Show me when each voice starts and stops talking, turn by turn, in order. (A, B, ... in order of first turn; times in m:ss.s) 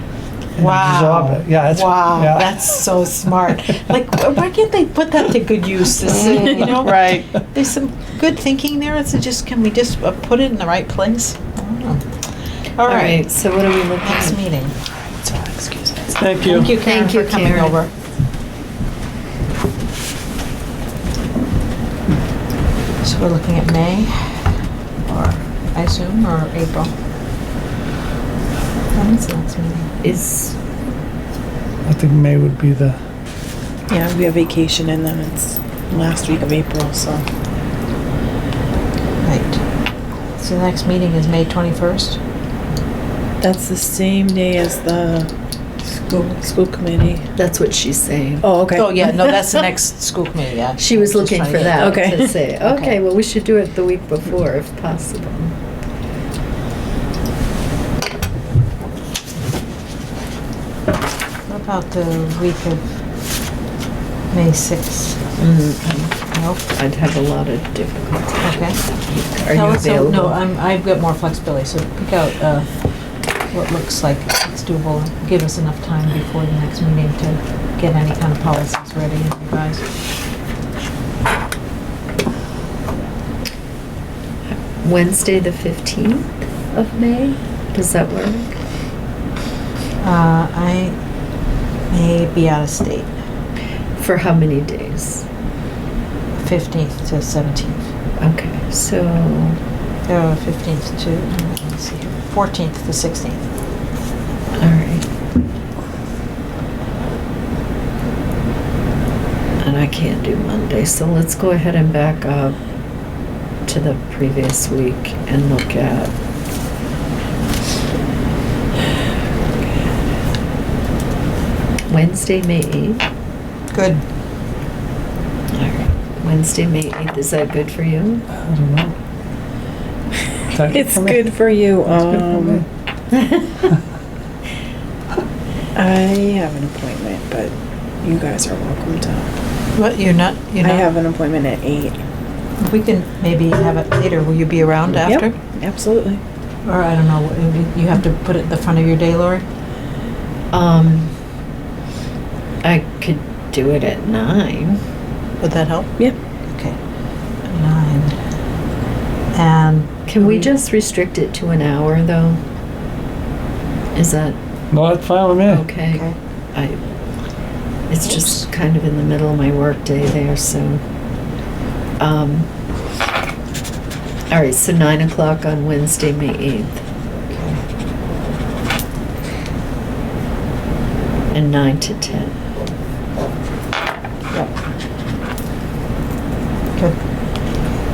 0:00.6-0:02.7 A
0:00.6-0:12.0 B
0:06.2-0:07.3 C
0:12.7-0:13.2 B
0:12.8-0:14.4 D
0:14.0-0:14.7 B
0:15.2-0:16.2 C
0:16.2-0:16.7 A
0:16.4-0:17.9 B
0:16.6-0:17.8 D
0:23.0-0:24.5 B
0:25.1-0:26.9 B
0:28.9-0:29.9 B
0:30.0-0:30.6 D
0:31.8-0:33.0 A
0:33.9-0:37.2 C
0:39.2-0:39.6 B
0:40.4-0:42.2 B
0:43.4-0:45.3 C
0:46.2-0:47.2 C
0:47.4-0:48.5 D
0:48.4-0:49.7 C
0:48.7-0:51.9 B
0:50.8-0:55.5 D
0:51.8-0:52.4 C
0:52.6-0:52.9 B
1:01.5-1:02.8 B
1:04.3-1:05.2 B
1:05.4-1:06.2 D
1:06.3-1:06.6 B
1:06.7-1:10.4 D
1:08.4-1:08.8 B
1:09.5-1:12.7 B
1:13.5-1:19.8 B
1:24.6-1:28.5 D
1:30.0-1:31.0 B
1:31.9-1:33.1 B
1:34.0-1:35.2 D
1:36.4-1:37.9 B
1:38.2-1:39.6 D
1:40.1-1:43.5 B
1:44.6-1:45.0 D
1:49.6-1:52.6 D
1:53.6-1:56.1 D
2:01.9-2:03.0 D
2:03.7-2:04.0 B
2:05.5-2:08.2 D
2:08.3-2:08.9 A
2:10.5-2:11.2 A
2:10.7-2:12.6 C
2:12.1-2:12.6 A
2:13.1-2:13.5 D
2:15.7-2:19.3 C
2:19.7-2:20.9 B
2:20.6-2:22.0 C
2:22.6-2:25.3 B
2:25.0-2:26.2 C
2:26.6-2:29.4 B
2:30.5-2:31.1 D
2:32.6-2:34.8 D
2:35.4-2:35.9 B
2:36.5-2:36.8 B
2:37.5-2:38.2 B
2:39.3-2:40.5 B
2:40.1-2:42.4 D
2:43.9-2:44.4 D
2:44.7-2:45.6 A
2:45.5-2:46.8 D
2:47.9-2:50.8 D
2:48.0-2:48.4 B
2:52.0-2:52.5 D
2:54.3-2:56.8 D
2:57.3-2:57.6 B
3:01.3-3:02.4 D